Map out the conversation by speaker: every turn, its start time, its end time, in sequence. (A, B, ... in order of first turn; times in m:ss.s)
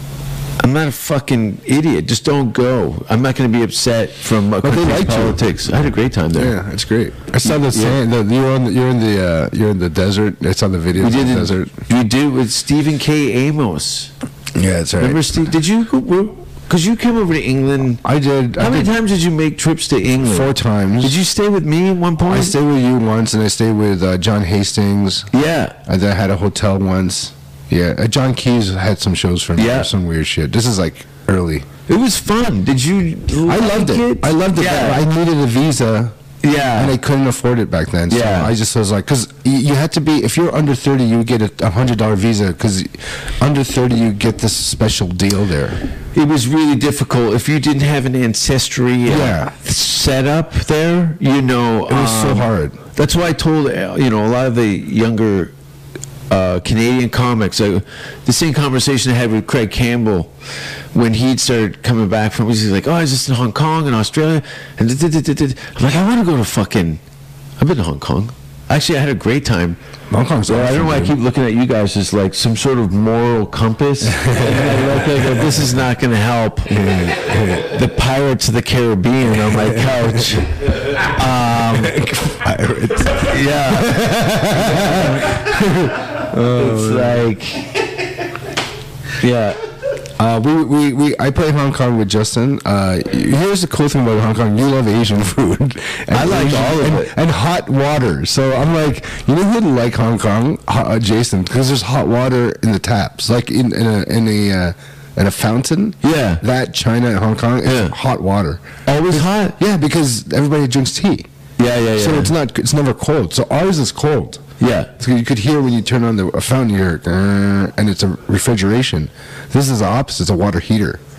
0:00.6-0:06.5 A
0:04.6-0:05.4 B
0:06.3-0:11.7 B
0:07.4-0:08.0 A
0:11.0-0:14.1 A
0:14.6-0:15.2 B
0:15.0-0:18.0 A
0:18.0-0:18.9 B
0:18.6-0:22.6 A
0:20.2-0:21.2 B
0:22.2-0:25.3 B
0:25.3-0:25.8 A
0:25.8-0:31.7 B
0:29.6-0:29.9 A
0:31.9-0:35.0 A
0:33.4-0:36.2 B
0:36.4-0:37.0 A
0:36.8-0:45.8 B
0:38.1-0:38.6 A
0:46.2-0:55.5 A
0:49.1-0:49.5 B
0:51.9-0:52.8 B
0:56.3-1:00.3 A
1:00.9-1:07.0 A
1:07.6-1:09.8 A
1:10.1-1:11.2 B
1:10.5-1:16.8 A
1:14.0-1:15.7 B
1:16.7-1:17.7 B
1:17.5-1:22.0 A
1:19.6-1:20.2 B
1:21.7-1:27.2 B
1:23.1-1:25.5 A
1:26.4-1:27.7 A
1:29.2-1:29.6 A
1:30.2-1:51.3 B
1:36.1-1:37.1 A
1:46.0-1:46.4 A
1:47.6-1:48.0 A
1:48.9-1:49.6 A
1:51.6-1:52.3 A
1:51.9-1:54.4 B
1:54.6-1:54.9 A
1:55.0-2:01.0 B